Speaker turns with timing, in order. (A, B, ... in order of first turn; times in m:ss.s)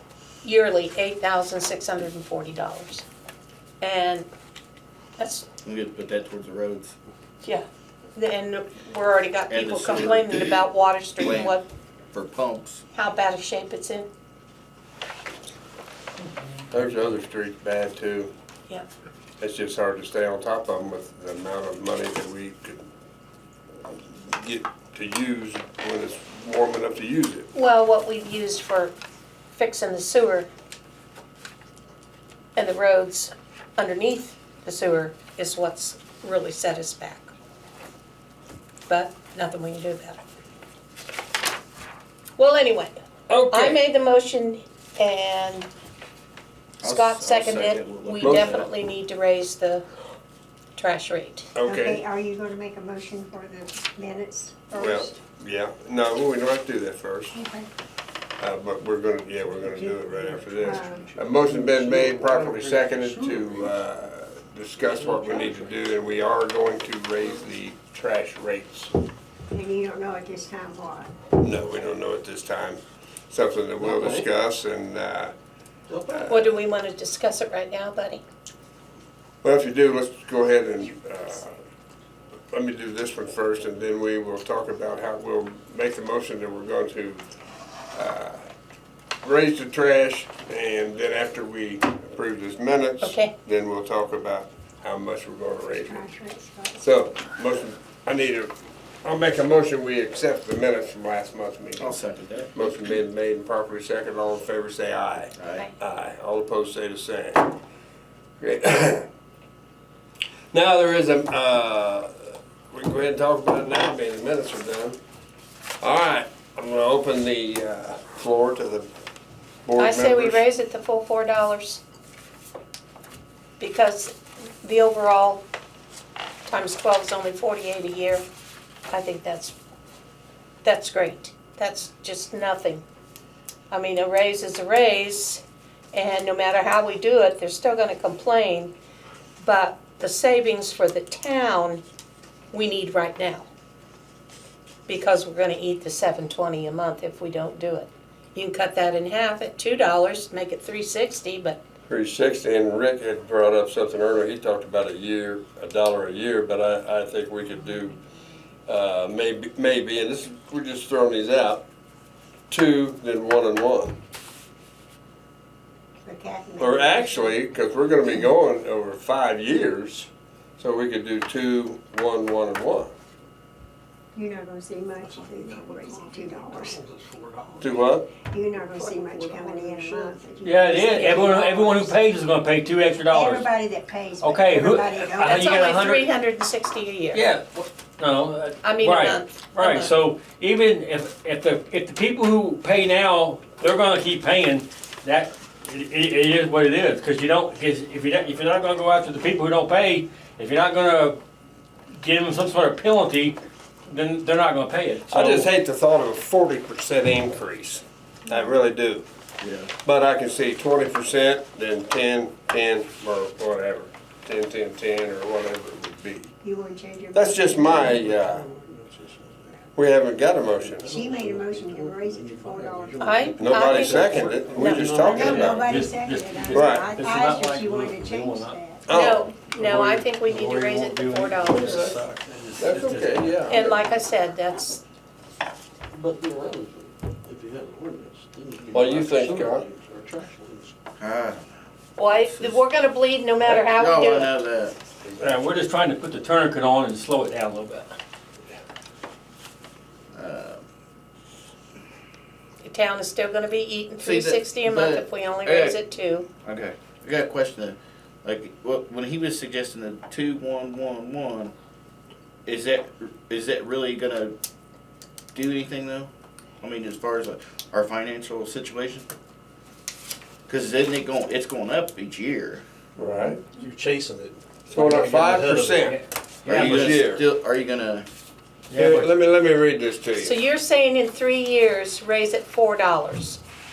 0:00.4-0:03.0 A
0:03.8-0:04.3 A
0:05.2-0:05.4 A
0:05.6-0:06.9 B
0:07.4-0:11.6 A
0:09.5-0:10.6 B
0:11.2-0:11.6 B
0:12.1-0:12.8 B
0:12.9-0:14.1 A
0:16.7-0:18.3 C
0:19.4-0:22.9 C
0:23.8-0:27.5 C
0:27.5-0:28.9 A
0:29.5-0:30.5 A
0:32.6-0:37.3 A
0:38.9-0:40.2 A
0:42.4-0:45.7 A
0:43.3-0:43.8 C
0:46.8-0:48.7 B
0:46.8-0:49.8 A
0:48.2-0:48.6 C
0:50.8-0:51.5 A
0:51.5-0:52.0 C
0:51.6-0:55.2 D
0:54.7-0:57.4 C
0:57.3-0:57.7 D
0:58.4-1:08.9 C
0:59.4-1:03.8 E
1:00.6-1:01.0 D
1:04.8-1:05.8 E
1:09.5-1:11.1 D
1:11.4-1:15.3 C
1:13.8-1:14.3 E
1:15.9-1:16.3 E
1:16.3-1:18.2 A
1:19.4-1:21.5 C
1:22.5-1:27.2 C
1:27.9-1:28.5 C
1:29.2-1:36.0 C
1:33.0-1:33.3 A
1:35.8-1:36.8 D
1:36.8-1:38.5 C
1:39.0-1:41.9 C
1:41.8-1:42.6 B
1:42.5-1:47.5 C
1:45.4-1:45.7 B
1:48.4-1:49.1 C
1:50.5-1:55.0 C
1:55.8-1:58.9 C
1:59.6-2:00.4 C
1:59.8-2:01.8 A
2:03.6-2:05.4 A
2:06.4-2:08.2 A
2:08.9-2:09.5 A
2:10.6-2:12.8 A
2:13.7-2:15.4 A
2:15.9-2:18.7 A
2:19.4-2:21.8 A
2:22.5-2:23.5 A
2:24.9-2:31.6 A
2:31.9-2:38.0 C
2:38.7-2:41.6 C
2:42.5-2:44.0 C
2:46.0-2:47.4 D
2:46.6-2:52.9 C
2:54.1-2:56.8 D
2:55.0-2:57.8 E
2:57.6-2:58.2 C
2:58.2-3:01.8 D
2:58.5-3:00.3 E
3:00.4-3:03.5 F
3:03.0-3:05.6 D
3:04.2-3:06.1 F
3:05.2-3:07.2 A
3:07.1-3:21.2 F
3:08.6-3:09.9 A
3:21.9-3:25.5 F
3:25.1-3:29.0 C
3:29.4-3:29.7 B
3:29.8-3:36.3 C
3:36.4-3:38.0 D
3:37.1-3:38.5 C
3:37.8-3:39.7 E
3:39.8-3:40.9 C
3:40.6-3:45.5 E
3:40.9-3:43.3 D
3:43.0-3:45.0 A
3:43.4-3:45.7 C
3:45.0-3:48.6 F
3:45.0-3:48.8 D
3:46.5-3:46.9 C
3:48.9-3:49.3 C
3:48.9-3:52.0 A
3:49.5-3:53.4 F
3:51.6-3:52.0 C
3:52.6-3:53.9 C
3:53.5-3:54.8 A
3:55.9-4:00.7 E
3:58.7-3:59.6 C
4:01.0-4:02.6 B
4:02.0-4:04.3 A
4:03.4-4:04.7 B
4:05.2-4:07.9 F
4:10.1-4:10.6 B
4:12.6-4:16.2 A
4:14.0-4:15.8 B
4:16.4-4:21.5 B
4:22.4-4:24.3 B
4:25.3-4:26.1 B
4:26.6-4:29.1 B
4:30.5-4:32.6 B
4:33.0-4:33.4 C
4:33.5-4:35.9 E
4:34.7-4:37.2 C
4:35.7-4:36.8 F
4:36.4-4:38.1 B
4:38.7-4:39.1 F
4:38.7-4:40.3 C
4:40.2-4:43.4 A